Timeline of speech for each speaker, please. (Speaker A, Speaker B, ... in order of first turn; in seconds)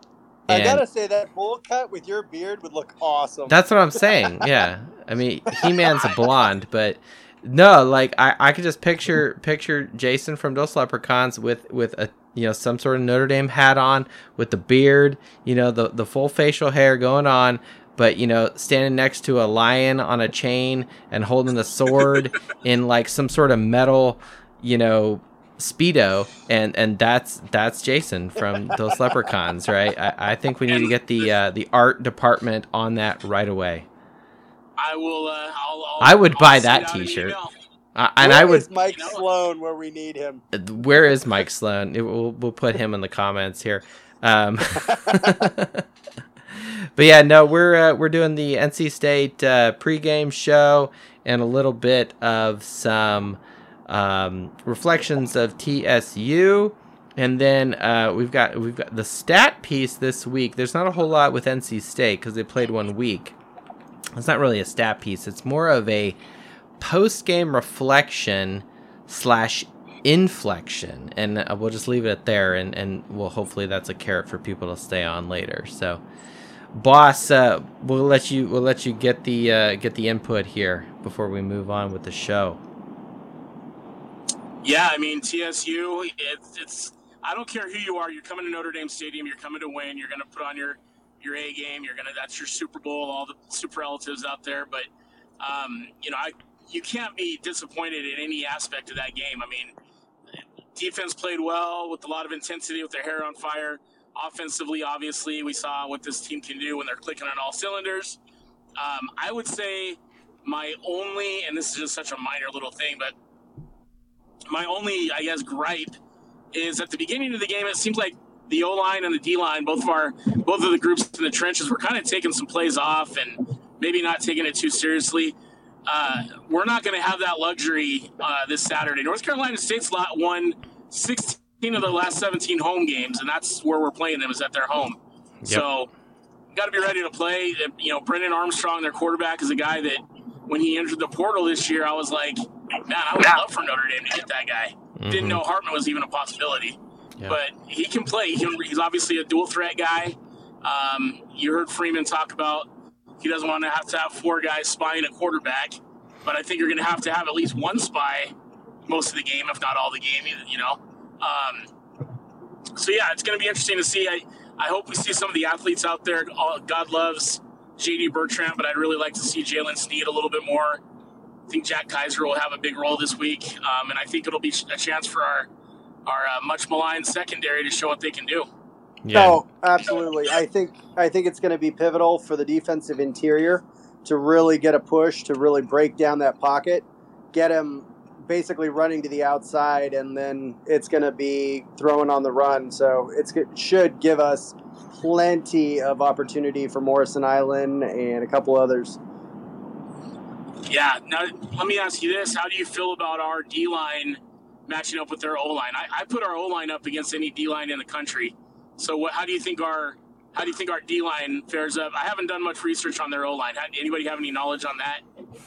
Speaker A: 0.5-0.8, 3.5-33.9, 36.0-37.4, 37.9-38.7, 40.5-45.9, 46.5-63.4, 64.1-66.2, 66.8-76.0, 76.7-82.6, 145.0-145.4, 179.0-179.4
Speaker B: 0.5-4.7, 5.6-6.1, 38.2-40.4, 44.9-45.4, 179.1-199.0
Speaker C: 30.7-30.9, 34.8-37.5, 38.8-39.2, 84.6-94.9, 95.4-99.7, 100.7-108.2, 108.8-113.1, 114.5-115.9, 116.5-125.3, 125.8-135.9, 136.5-152.7, 153.2-158.3, 158.9-161.7, 162.8-170.8, 171.5-175.5, 176.1-178.5, 200.7-215.0